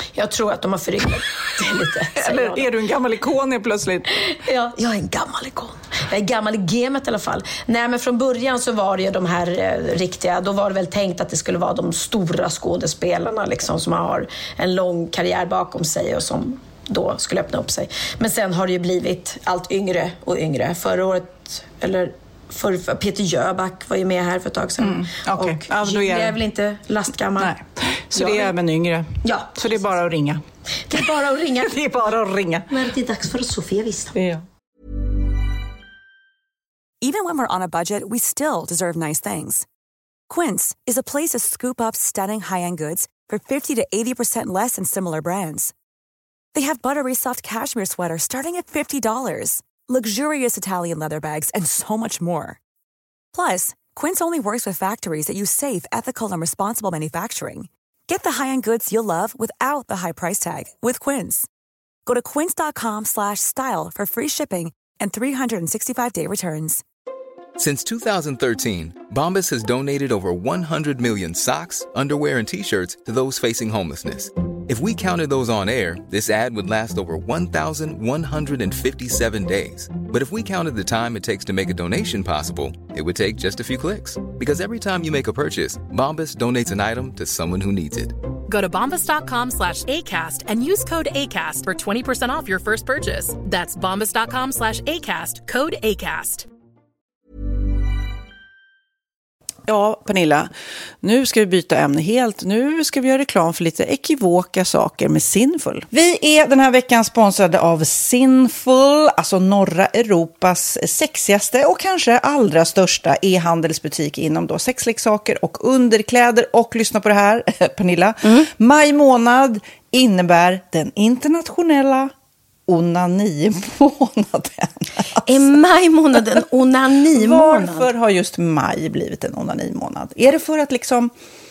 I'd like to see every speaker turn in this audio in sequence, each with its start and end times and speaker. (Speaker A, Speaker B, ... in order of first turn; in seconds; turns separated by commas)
Speaker A: 0.1-2.7, Speaker B: 2.1-4.1, Speaker A: 4.2-27.5, Speaker B: 24.8-26.4, Speaker B: 27.4-30.4, Speaker A: 28.2-28.5, Speaker A: 29.2-29.6, Speaker A: 30.9-31.8, Speaker B: 31.6-32.7, Speaker A: 32.7-34.2, Speaker B: 34.1-34.4, Speaker C: 37.0-39.6, Speaker C: 40.3-45.7, Speaker C: 46.5-52.6, Speaker C: 53.3-61.5, Speaker C: 62.1-66.8, Speaker D: 67.6-88.2, Speaker E: 88.5-96.5, Speaker B: 99.7-100.5, Speaker B: 101.0-122.1, Speaker B: 122.7-125.4, Speaker A: 125.3-127.9, Speaker B: 127.1-131.1